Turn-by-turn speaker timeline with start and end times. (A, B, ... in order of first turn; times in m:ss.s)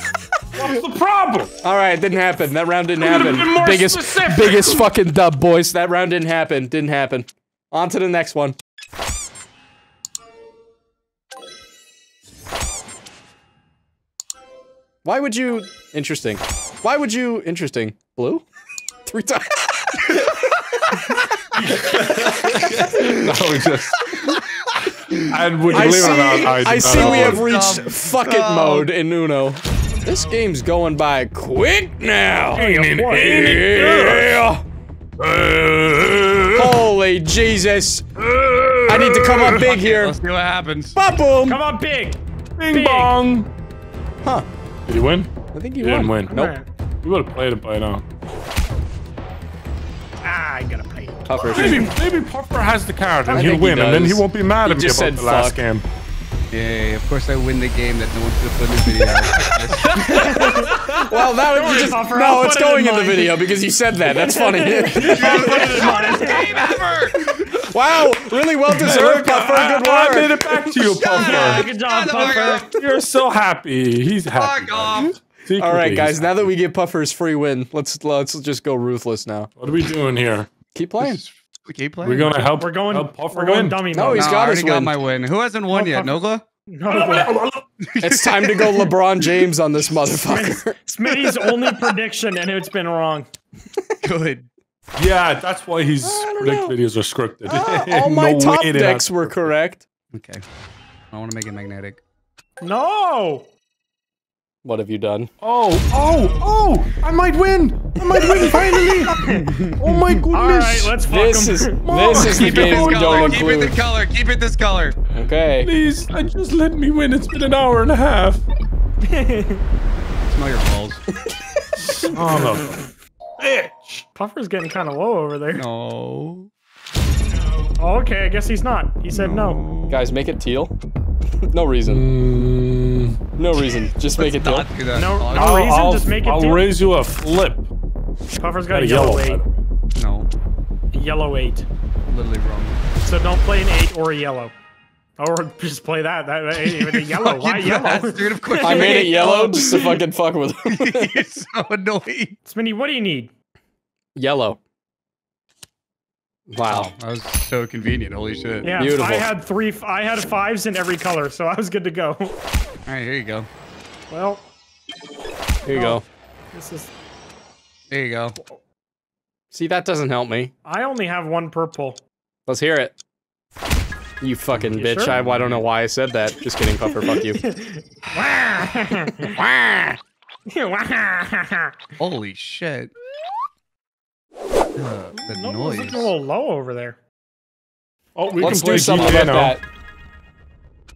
0:00.5-0:01.5 A
0:01.6-0:08.6 B
0:03.0-0:04.9 A
0:15.0-0:18.4 B
0:19.0-0:21.1 B
0:21.6-0:24.4 A
0:22.2-0:22.7 B
0:22.8-0:23.3 C
0:24.1-0:28.9 C
0:25.2-0:27.5 A
0:25.7-0:34.6 B
0:32.5-0:34.4 A
0:32.5-0:33.5 D
0:35.2-0:36.8 A
0:36.5-0:38.1 B
0:38.2-0:39.7 A
0:38.9-0:40.2 B
0:39.2-0:41.0 C
0:41.0-0:41.6 B
0:41.5-0:43.2 D
0:42.6-0:43.5 A
0:44.9-0:46.3 A
0:45.5-0:46.5 B
0:46.3-0:46.7 D
0:47.0-0:48.0 A
0:50.2-0:51.8 D
0:51.3-0:51.9 B
0:51.5-0:55.9 A
0:53.3-0:53.5 D
0:53.3-0:55.6 B
0:56.5-1:00.7 C
0:59.8-1:01.9 A
1:00.1-1:00.8 D
1:01.0-1:06.3 B
1:01.3-1:03.5 D
1:04.0-1:06.7 D
1:04.9-1:07.3 C
1:07.2-1:10.9 B
1:08.7-1:11.7 A
1:10.9-1:12.8 C
1:11.1-1:12.7 D
1:12.4-1:16.5 A
1:14.3-1:15.2 C
1:15.6-1:19.5 B
1:19.6-1:20.5 A
1:20.7-1:21.2 B
1:21.0-1:22.5 C
1:22.0-1:23.9 A
1:22.6-1:24.5 D
1:23.9-1:24.9 B
1:24.2-1:26.4 C
1:25.7-1:27.4 D
1:26.9-1:27.7 A
1:27.8-1:29.0 C
1:28.0-1:30.8 B
1:30.1-1:33.3 D
1:34.0-1:34.5 C
1:35.0-1:39.1 A
1:36.0-1:36.8 B
1:37.5-1:39.8 B
1:40.1-1:40.4 C
1:41.1-1:42.0 C
1:42.6-1:43.5 D
1:44.6-1:45.3 B
1:45.4-1:51.0 A
1:48.2-1:49.5 D
1:49.1-1:50.1 C
1:50.3-1:51.8 D
1:51.0-1:53.8 B
1:51.8-1:53.6 A
1:52.1-1:55.0 C
1:55.1-1:55.7 B
1:55.6-1:58.4 A
1:59.0-1:59.6 D
2:00.2-2:01.0 C
2:01.9-2:04.0 A
2:04.2-2:05.7 D
2:05.6-2:06.5 C
2:07.8-2:09.6 D
2:09.1-2:10.0 C
2:09.9-2:10.8 B
2:11.5-2:12.1 B
2:11.8-2:13.2 A
2:13.4-2:14.7 B
2:14.2-2:15.6 C
2:14.9-2:16.7 D
2:15.3-2:17.7 A
2:18.4-2:19.4 D
2:18.7-2:19.6 A
2:20.0-2:20.3 C
2:20.9-2:21.7 D
2:22.1-2:22.8 C
2:23.0-2:24.5 D
2:25.2-2:30.0 D
2:26.6-2:30.0 C
2:28.6-2:31.2 B
2:30.7-2:32.4 C
2:32.4-2:33.3 D
2:34.2-2:34.6 B
2:36.5-2:36.9 B
2:36.7-2:38.7 C
2:38.6-2:42.3 D
2:38.7-2:39.3 B
2:42.9-2:43.5 C
2:44.1-2:44.5 D
2:45.6-2:46.0 B
2:45.7-2:46.0 D
2:46.5-2:46.9 D
2:47.9-2:48.4 C
2:49.5-2:50.5 B
2:50.6-2:52.0 D
2:52.5-2:53.0 B
2:54.2-2:57.4 B
2:54.6-2:55.6 C
2:54.8-2:55.2 D
2:56.9-2:59.4 D
2:59.2-3:00.0 B
3:00.5-3:01.8 D
3:02.0-3:02.9 C
3:04.8-3:06.1 C
3:05.2-3:07.0 D
3:08.2-3:09.6 A
3:08.4-3:09.6 B